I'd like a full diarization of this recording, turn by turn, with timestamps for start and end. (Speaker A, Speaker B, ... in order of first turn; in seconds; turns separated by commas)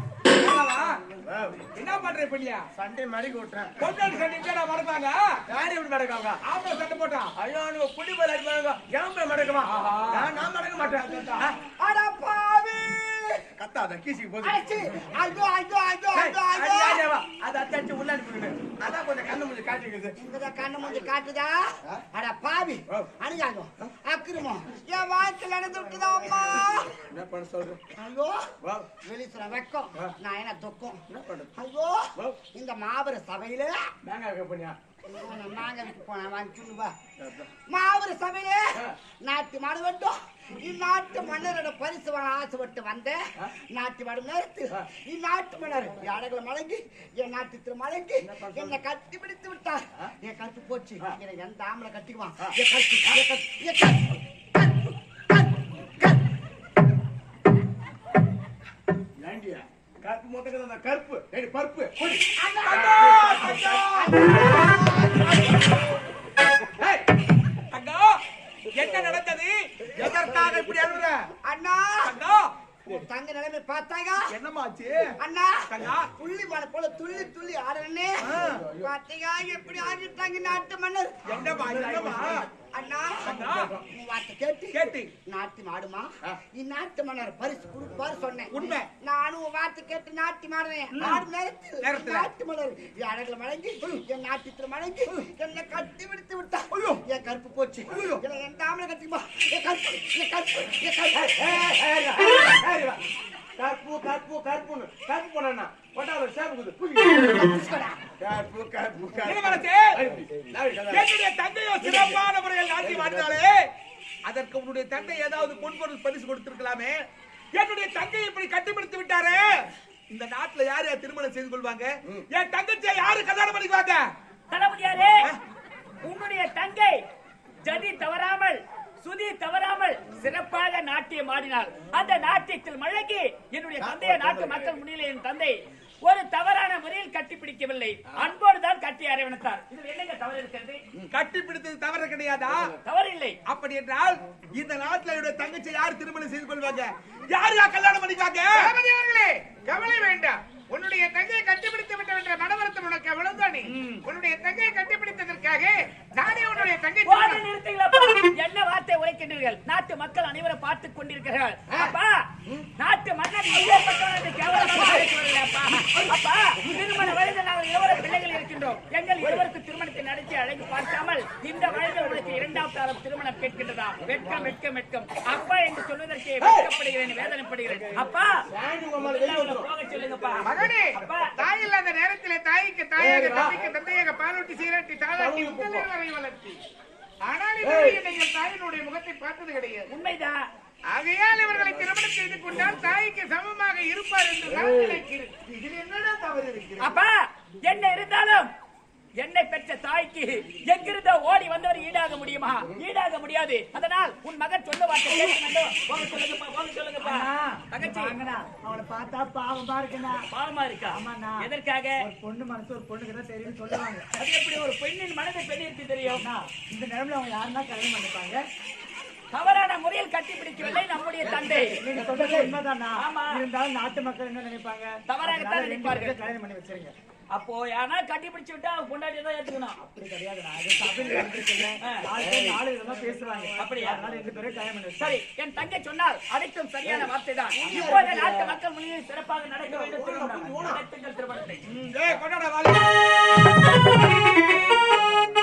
Speaker A: 0.4-1.0, Speaker B: 1.2-1.7, Speaker A: 1.8-2.6, Speaker B: 2.8-3.8, Speaker A: 3.8-5.3, Speaker B: 5.5-6.4, Speaker A: 6.4-7.3, Speaker B: 7.4-11.5, Speaker A: 9.7-10.3, Speaker A: 10.9-11.6, Speaker C: 11.8-13.5, Speaker B: 13.6-14.6, Speaker C: 14.4-17.1, Speaker B: 16.1-20.2, Speaker C: 20.2-27.0, Speaker B: 27.0-27.8, Speaker C: 27.9-33.9, Speaker B: 28.6-28.9, Speaker B: 31.1-31.5, Speaker B: 34.0-34.8, Speaker C: 35.1-36.9, Speaker B: 37.2-37.5, Speaker C: 37.7-56.2, Speaker B: 48.2-48.8, Speaker B: 59.2-65.3, Speaker C: 62.4-63.0, Speaker A: 62.6-64.3, Speaker C: 64.0-65.4, Speaker A: 67.7-68.2, Speaker A: 68.7-71.3, Speaker C: 71.5-72.1, Speaker A: 72.0-72.5, Speaker C: 72.8-74.3, Speaker A: 74.3-75.1, Speaker C: 75.2-81.2, Speaker A: 75.7-76.1, Speaker A: 78.2-78.7, Speaker B: 78.5-78.9, Speaker A: 81.3-82.5, Speaker B: 81.5-82.5, Speaker C: 82.7-101.5, Speaker A: 83.2-83.8, Speaker B: 83.3-83.9, Speaker A: 84.7-85.1, Speaker A: 88.5-88.9, Speaker A: 91.0-91.2, Speaker A: 91.8-92.3, Speaker A: 96.7-97.0, Speaker A: 97.9-98.2, Speaker B: 101.2-103.0, Speaker B: 103.6-107.4, Speaker C: 107.2-108.0, Speaker B: 108.2-111.1, Speaker A: 109.2-110.0, Speaker A: 110.9-113.6, Speaker B: 111.8-112.2, Speaker B: 112.8-113.4, Speaker A: 114.3-117.0, Speaker A: 117.5-124.1, Speaker D: 124.5-125.3, Speaker D: 126.0-127.0, Speaker D: 127.6-140.8, Speaker B: 133.8-134.8, Speaker A: 141.1-142.7, Speaker D: 142.8-143.4, Speaker A: 143.5-148.6, Speaker E: 148.6-157.4, Speaker D: 157.1-162.3, Speaker D: 162.8-178.3, Speaker B: 164.8-165.0, Speaker B: 174.2-174.5, Speaker B: 176.4-176.7, Speaker B: 178.5-179.7, Speaker D: 179.0-181.3, Speaker E: 180.5-186.6, Speaker B: 183.0-183.7, Speaker B: 185.2-185.9, Speaker E: 187.2-189.9, Speaker B: 187.6-188.0, Speaker D: 189.9-190.4, Speaker E: 190.9-195.5, Speaker B: 191.6-191.9, Speaker B: 194.5-195.0, Speaker B: 195.6-196.7, Speaker A: 195.7-196.8, Speaker D: 196.8-198.5, Speaker D: 199.2-208.1, Speaker F: 207.0-210.2, Speaker D: 210.3-212.0, Speaker F: 211.0-211.3, Speaker F: 212.1-214.1, Speaker D: 214.2-216.2, Speaker F: 216.2-218.4, Speaker D: 219.3-221.8, Speaker B: 221.3-222.5, Speaker F: 221.8-226.9, Speaker E: 222.0-222.4, Speaker D: 223.0-223.4, Speaker D: 225.1-226.2, Speaker E: 225.8-226.1, Speaker D: 227.3-229.8, Speaker F: 229.8-235.1, Speaker D: 231.8-232.1, Speaker E: 232.2-232.6, Speaker B: 232.2-234.2, Speaker E: 233.2-233.6, Speaker D: 233.6-234.0, Speaker D: 235.0-241.7, Speaker B: 237.6-238.6, Speaker B: 239.7-240.8, Speaker A: 241.7-243.5